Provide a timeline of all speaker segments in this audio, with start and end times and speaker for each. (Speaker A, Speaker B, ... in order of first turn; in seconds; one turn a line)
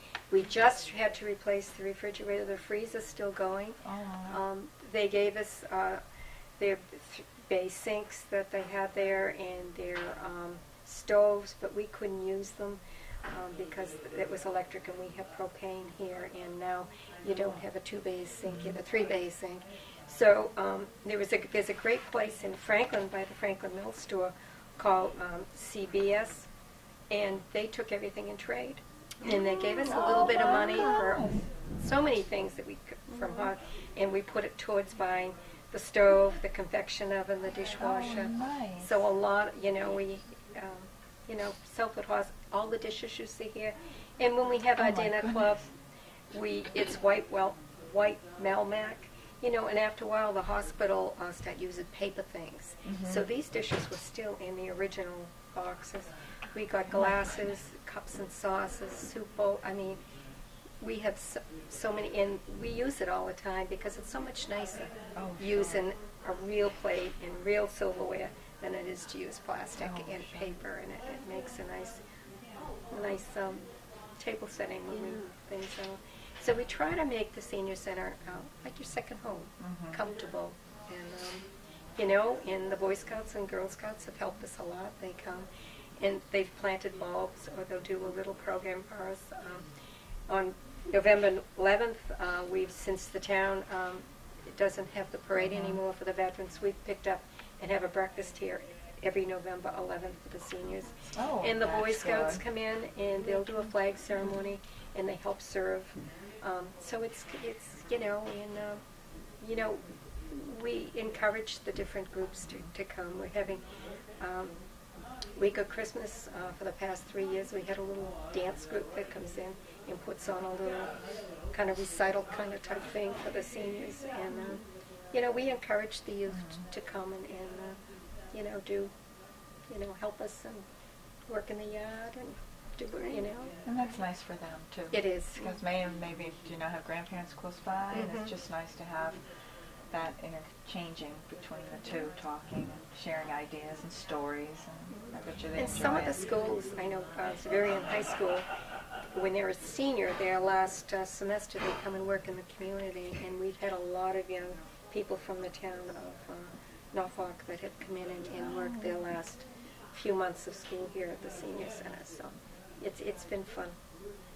Speaker A: 0.3-6.0
Speaker B: 3.8-4.4
Speaker A: 6.6-26.5
Speaker B: 18.5-18.8
Speaker A: 27.1-45.7
Speaker B: 29.8-31.4
Speaker B: 37.8-38.9
Speaker B: 44.8-45.5
Speaker A: 46.3-60.0
Speaker B: 52.9-53.2
Speaker A: 60.8-72.0
Speaker B: 65.1-65.8
Speaker B: 69.8-70.5
Speaker A: 72.9-73.7
Speaker A: 74.2-85.5
Speaker B: 79.6-80.0
Speaker A: 86.0-89.7
Speaker A: 90.3-108.8
Speaker B: 95.4-95.8
Speaker B: 101.2-102.4
Speaker A: 109.4-113.6
Speaker A: 114.2-114.5
Speaker A: 115.3-120.9
Speaker A: 121.5-127.8
Speaker B: 126.3-126.6
Speaker A: 128.3-128.9
Speaker A: 129.7-130.7
Speaker A: 131.3-133.5
Speaker B: 133.7-139.2
Speaker A: 134.9-135.5
Speaker A: 137.9-138.3
Speaker B: 139.9-146.2
Speaker A: 145.5-148.5
Speaker A: 149.1-163.8
Speaker B: 158.6-158.9